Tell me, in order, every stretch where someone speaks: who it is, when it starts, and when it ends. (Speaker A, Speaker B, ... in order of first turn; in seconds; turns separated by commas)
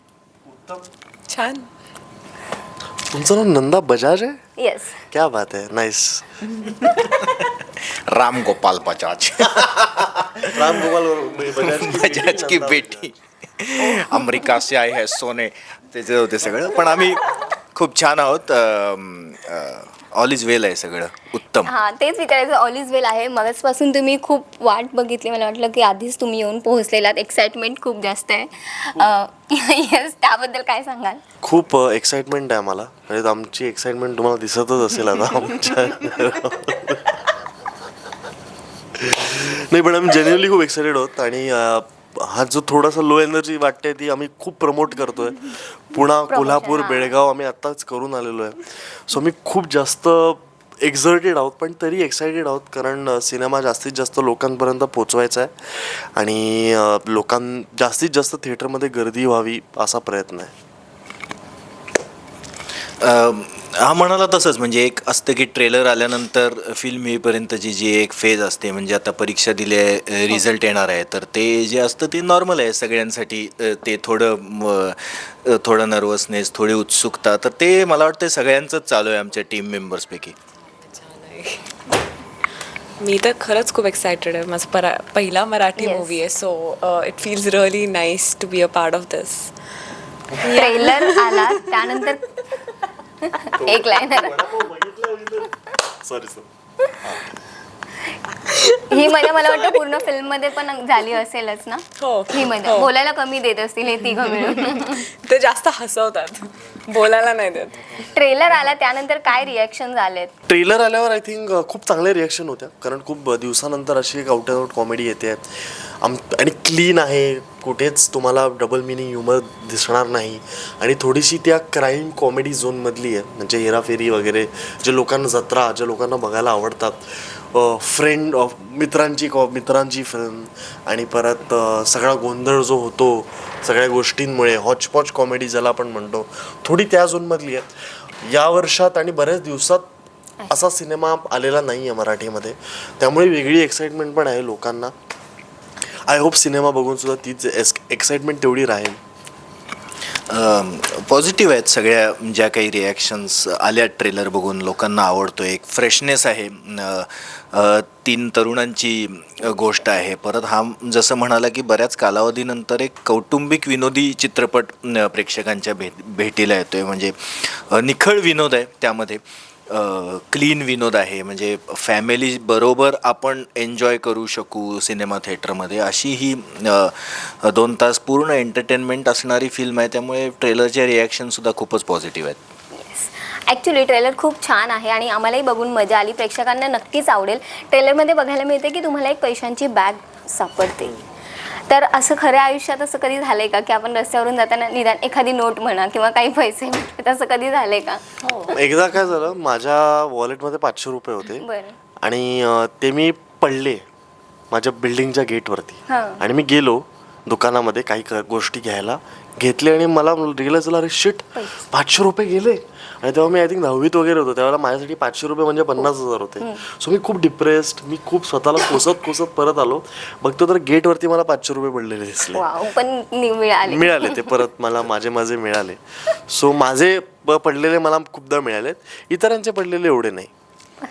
Speaker A: 0.5-0.9, Speaker B: 1.3-1.7, Speaker A: 3.1-4.4, Speaker C: 4.6-5.0, Speaker A: 5.1-6.7, Speaker D: 6.8-10.9, Speaker A: 10.5-13.1, Speaker D: 11.4-21.7, Speaker C: 13.9-14.2, Speaker C: 21.6-31.2, Speaker A: 31.4-37.2, Speaker A: 39.0-60.5, Speaker C: 46.3-47.1, Speaker D: 63.0-80.3, Speaker B: 80.6-81.8, Speaker B: 83.0-89.5, Speaker C: 85.8-86.2, Speaker B: 90.4-92.0, Speaker C: 90.4-92.4, Speaker C: 93.2-94.4, Speaker A: 93.5-96.5, Speaker A: 97.0-97.3, Speaker B: 98.3-99.8, Speaker C: 98.9-105.1, Speaker B: 102.0-102.9, Speaker B: 104.2-108.0, Speaker C: 107.9-110.3, Speaker A: 110.5-137.7, Speaker A: 138.2-139.8, Speaker A: 140.5-144.9, Speaker A: 146.0-149.0, Speaker D: 150.3-182.4, Speaker C: 182.7-190.9, Speaker C: 191.5-198.2, Speaker B: 198.2-198.5, Speaker A: 198.5-201.4, Speaker C: 201.3-201.8, Speaker A: 202.0-203.8, Speaker A: 204.5-222.5, Speaker C: 205.9-206.2, Speaker C: 211.3-211.6, Speaker C: 222.3-224.4, Speaker A: 223.7-230.3